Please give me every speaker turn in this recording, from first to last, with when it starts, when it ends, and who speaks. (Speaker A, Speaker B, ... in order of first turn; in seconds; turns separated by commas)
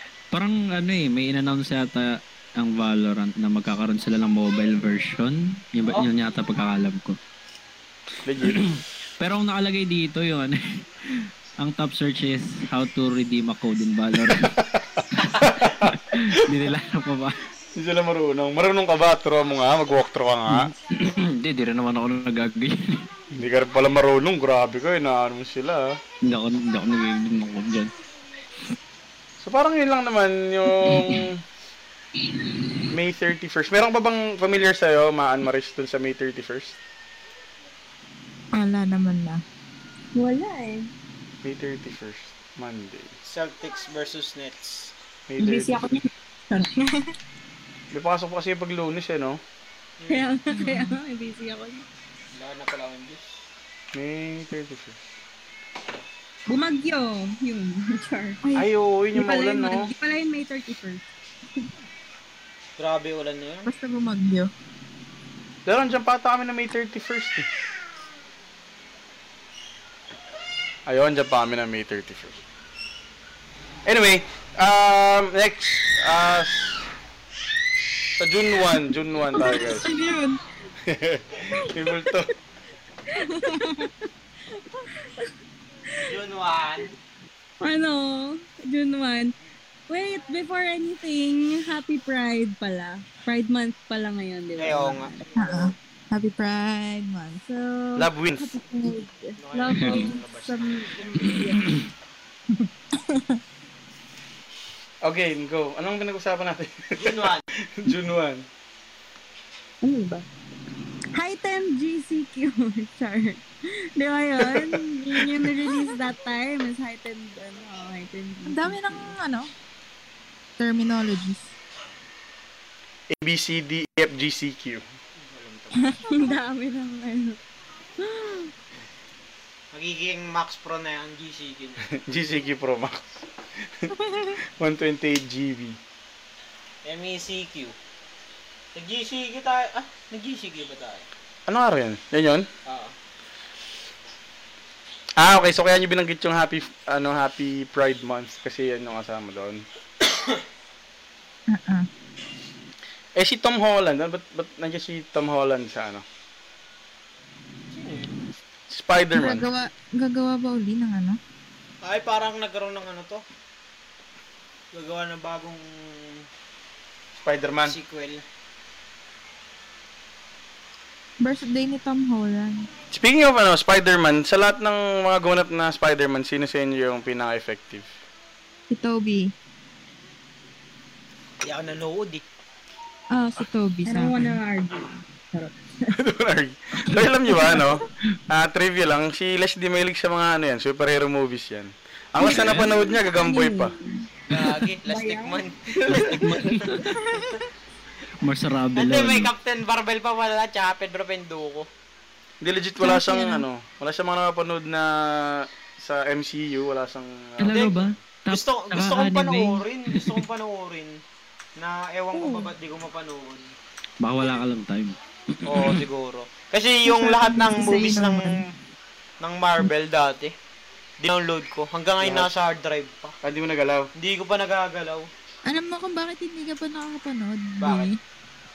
Speaker A: 0.3-7.2, Speaker B: 8.2-8.7, Speaker A: 8.4-14.6, Speaker B: 14.2-14.9, Speaker A: 15.2-17.4, Speaker B: 15.4-16.5, Speaker B: 17.8-20.7, Speaker A: 20.5-23.1, Speaker B: 23.3-26.0, Speaker A: 26.2-27.9, Speaker B: 29.4-31.4, Speaker A: 30.9-31.2, Speaker B: 32.9-36.8, Speaker C: 38.5-39.4, Speaker D: 40.1-40.9, Speaker B: 41.4-43.1, Speaker E: 43.2-44.9, Speaker B: 45.3-45.9, Speaker D: 45.4-46.8, Speaker C: 46.8-47.1, Speaker B: 47.9-49.4, Speaker E: 50.0-50.3, Speaker D: 50.1-51.9, Speaker C: 50.5-51.0, Speaker E: 52.3-53.2, Speaker B: 53.9-55.0, Speaker D: 56.5-58.4, Speaker B: 58.5-59.9, Speaker D: 59.1-61.0, Speaker E: 62.8-63.7, Speaker C: 63.6-64.5, Speaker B: 65.7-67.5, Speaker B: 70.9-72.4, Speaker B: 73.9-76.9, Speaker B: 78.2-79.9, Speaker C: 79.4-80.4, Speaker D: 79.4-79.8, Speaker B: 80.8-82.3, Speaker D: 83.1-83.9, Speaker C: 83.2-83.9, Speaker D: 84.5-85.3, Speaker E: 86.1-86.9, Speaker D: 87.6-89.3, Speaker D: 89.9-95.3, Speaker E: 94.6-95.6, Speaker C: 95.4-97.4, Speaker D: 97.4-101.8, Speaker B: 98.0-98.6, Speaker E: 99.4-101.4, Speaker A: 99.8-100.1, Speaker C: 103.0-103.4, Speaker B: 105.0-108.5, Speaker E: 107.0-107.4, Speaker D: 109.8-110.2, Speaker D: 111.1-119.1, Speaker B: 114.5-115.2, Speaker C: 118.5-119.5, Speaker C: 120.6-121.5, Speaker B: 123.1-124.8, Speaker E: 125.2-126.3, Speaker C: 125.8-126.2, Speaker D: 126.0-127.4, Speaker D: 128.0-128.5, Speaker E: 129.7-131.9, Speaker B: 131.9-135.8, Speaker E: 136.8-137.8, Speaker E: 138.7-141.1, Speaker B: 141.5-142.5, Speaker E: 142.7-142.9, Speaker B: 145.2-149.6, Speaker E: 150.0-150.4, Speaker C: 151.5-151.9, Speaker B: 153.2-156.0, Speaker E: 157.7-158.1, Speaker B: 158.7-159.5, Speaker C: 159.1-161.2, Speaker E: 161.8-163.2, Speaker E: 164.7-166.3, Speaker B: 167.2-167.8, Speaker E: 167.6-168.2, Speaker C: 171.2-172.7, Speaker B: 172.9-177.9, Speaker C: 178.7-179.3, Speaker E: 181.4-182.2, Speaker C: 183.1-184.4, Speaker D: 183.9-186.0, Speaker B: 185.9-193.7, Speaker C: 192.2-193.7, Speaker A: 192.2-192.7, Speaker D: 193.1-194.0, Speaker E: 194.3-197.3, Speaker D: 194.9-196.2, Speaker A: 195.9-197.0, Speaker A: 198.2-199.3, Speaker E: 198.7-201.7, Speaker B: 202.4-207.6, Speaker C: 202.8-203.4, Speaker A: 207.4-210.2, Speaker E: 207.5-211.0, Speaker E: 211.6-213.5, Speaker D: 212.2-212.5, Speaker A: 214.0-215.8, Speaker E: 215.4-218.5, Speaker C: 216.8-218.4, Speaker E: 219.2-220.3, Speaker E: 221.0-223.2, Speaker B: 222.0-222.3, Speaker B: 223.2-223.9, Speaker E: 223.9-225.1, Speaker C: 225.4-228.0, Speaker E: 227.6-227.9